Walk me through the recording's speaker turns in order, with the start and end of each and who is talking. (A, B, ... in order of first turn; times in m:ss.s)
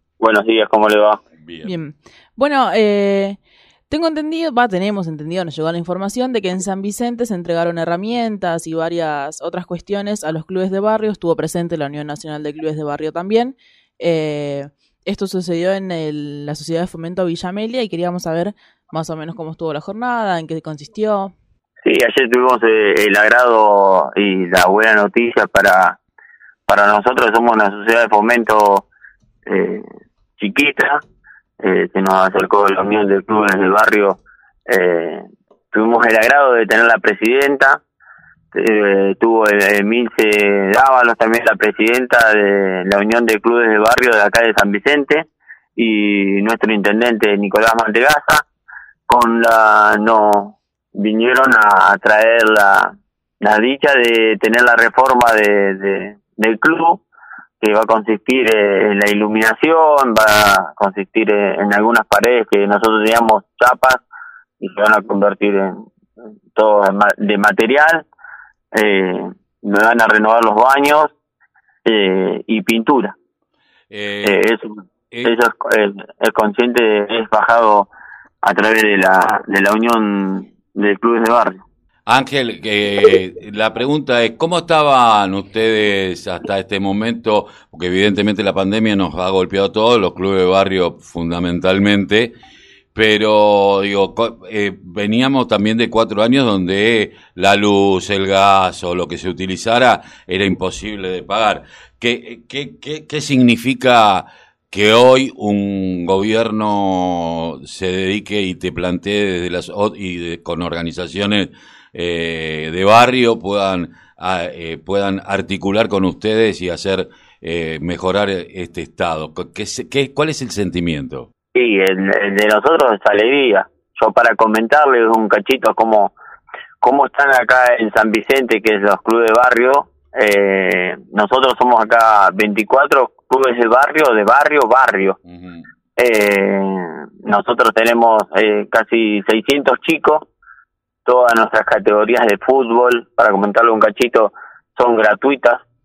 0:00.2-0:01.2 A
0:01.4-0:01.7 B
0:01.6-0:03.4 C
0:03.9-0:21.3 C
0:21.8-0:26.0 A
0:26.7-0:28.8 A
0:29.5-0:29.8 A
0:30.4-0:31.0 A
0:31.6-0:37.8 A
0:38.5-0:48.4 A
0:49.1-0:57.0 A
0:57.6-1:04.0 A
1:04.6-1:05.8 A
1:06.5-1:08.0 A
1:08.7-1:11.1 A
1:11.8-1:13.2 A
1:13.9-1:14.4 B
1:14.2-1:17.9 A
1:18.4-1:21.6 A
1:22.0-1:32.3 B
1:32.9-2:01.3 B
2:01.5-2:06.1 A
2:06.8-2:15.2 A
2:15.2-2:15.7 B
2:16.0-2:20.2 A
2:21.0-2:25.6 A